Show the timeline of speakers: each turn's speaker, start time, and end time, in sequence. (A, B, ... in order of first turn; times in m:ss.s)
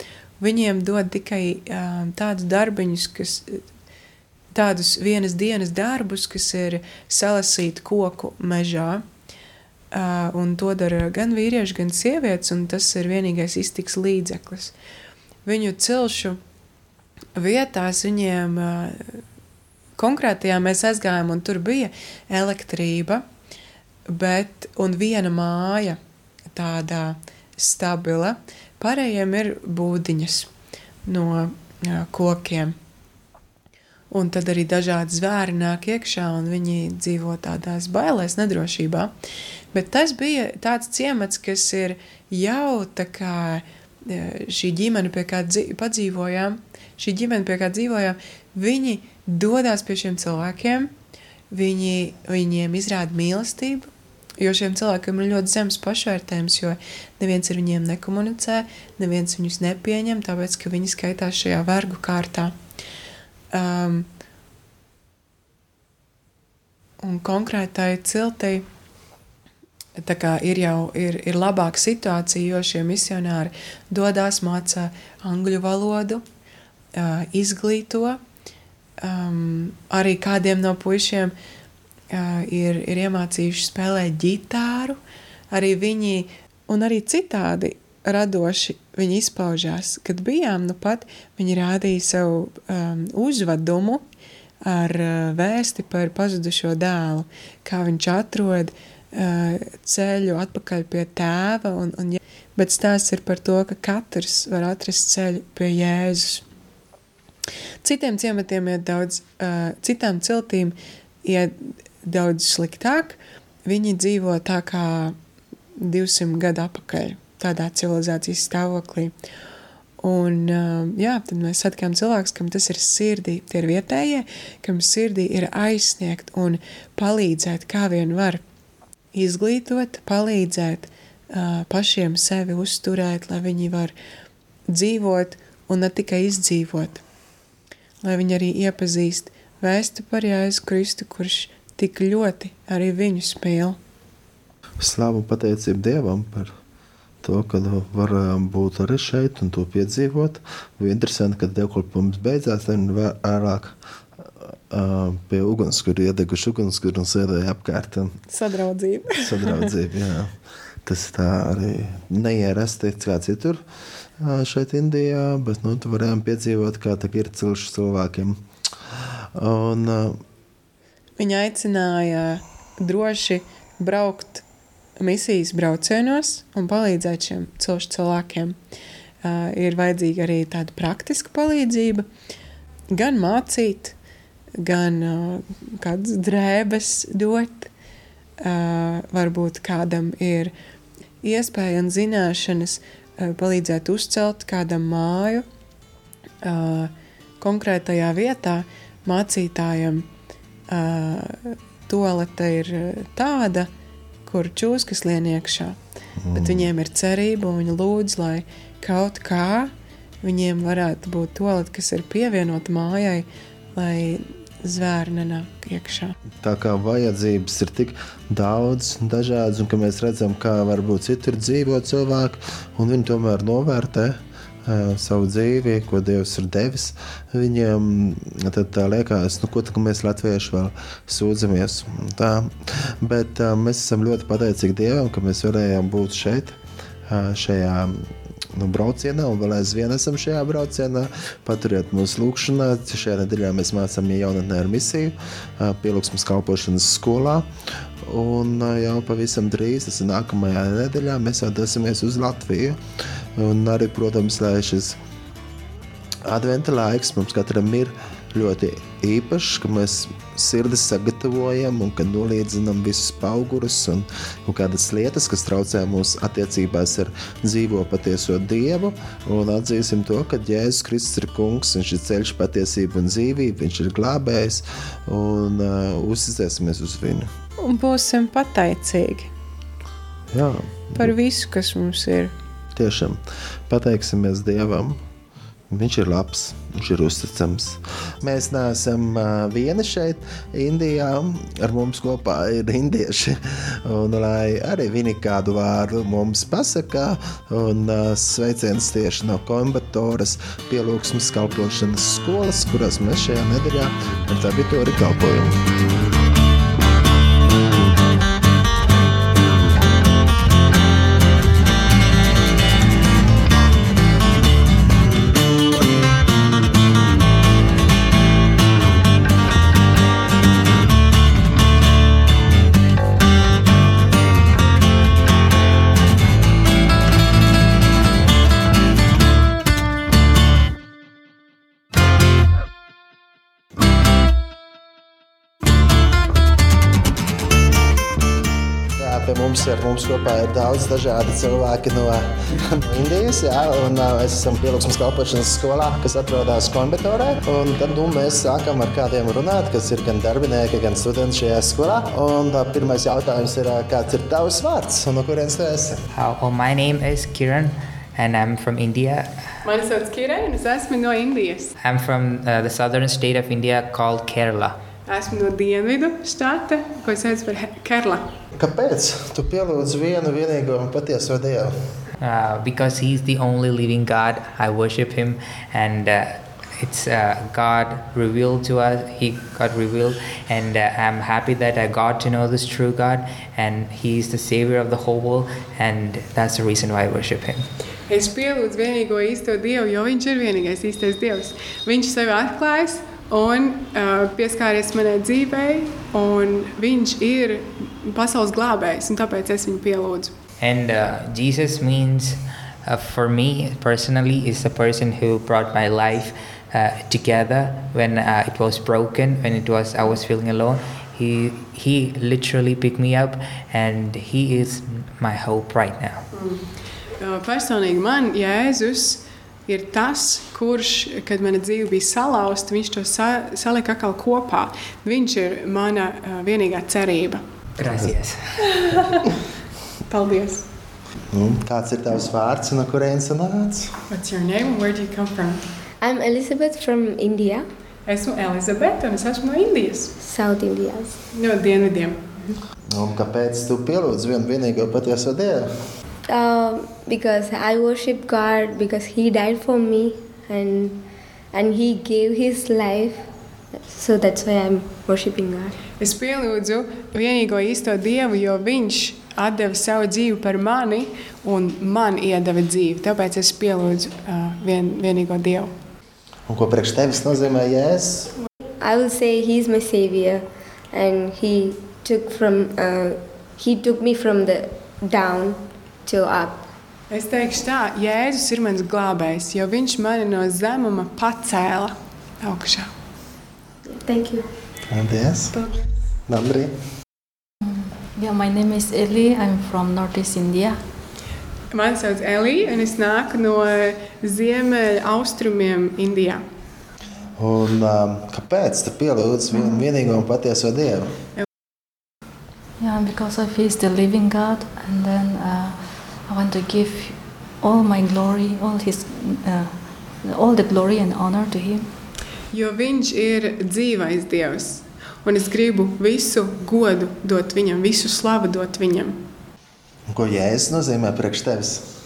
0:00.4-0:03.6 A
0:04.5-0:09.0 A
0:09.9-0:14.7 A
0:15.4-0:16.4 A
0:17.4-0:19.2 A
0:20.0-0:23.2 A
0:24.1-0:26.0 A
0:26.5-0:30.5 A
0:31.0-0:32.7 A
0:34.1-0:39.1 A
0:39.7-0:50.9 A
0:51.5-1:02.5 A
1:03.5-1:04.1 A
1:07.0-1:08.6 A
1:10.0-1:16.2 A
1:16.9-1:18.2 A
1:19.0-1:21.3 A
1:22.1-1:25.0 A
1:25.5-1:34.0 A
1:34.6-1:46.4 A
1:47.8-1:55.2 A
1:55.8-1:59.1 A
2:00.0-2:08.4 A
2:09.1-2:13.9 A
2:14.7-2:17.0 A
2:18.0-2:23.8 A
2:24.8-2:26.5 B
2:27.2-2:38.2 B
2:38.3-2:39.7 A
2:39.2-2:43.6 B
2:44.2-2:48.4 B
2:49.3-2:50.2 B
2:51.2-2:54.4 A
2:55.0-2:58.6 A
2:59.2-3:02.1 A
3:02.9-3:03.9 A
3:04.6-3:07.7 A
3:08.4-3:10.5 A
3:11.2-3:15.4 A
3:16.4-3:20.1 A
3:20.7-3:23.7 A
3:24.2-3:25.8 A
3:26.2-3:26.7 B
3:26.3-3:36.1 A
3:36.4-4:07.5 B
4:08.0-4:15.0 B
4:16.2-4:37.3 B
4:37.6-4:39.3 A
4:40.3-4:41.1 B
4:41.0-4:42.3 A
4:42.7-4:45.0 B
4:45.7-5:05.6 B
5:39.0-5:56.0 B
5:56.1-5:59.5 C
5:59.6-6:01.7 A
6:01.8-6:04.8 C
6:05.1-6:08.3 A
6:08.5-6:12.0 B
6:12.2-6:27.7 C
6:28.1-6:40.3 A
6:40.6-6:56.3 C
6:56.3-7:07.4 A
7:07.8-7:08.7 C
7:08.7-7:09.1 A
7:10.1-7:10.6 A
7:11.3-7:14.0 B
7:14.1-7:15.6 A
7:16.0-7:17.7 D
7:18.0-7:20.1 A
7:20.2-7:21.2 D
7:21.3-7:22.4 A
7:22.9-7:25.9 B
7:26.3-7:33.3 D
7:33.8-7:35.8 D
7:36.0-7:45.7 A
7:46.5-7:48.4 B
7:48.8-7:56.6 D
7:57.1-8:02.9 A
8:03.9-8:04.5 D
8:04.9-8:05.6 B
8:05.5-8:05.9 A
8:06.2-8:06.8 B
8:07.6-8:10.8 E
8:11.7-8:16.4 A
8:17.4-8:21.1 B
8:22.8-8:32.0 E
8:32.5-8:39.2 A
8:40.1-8:41.9 B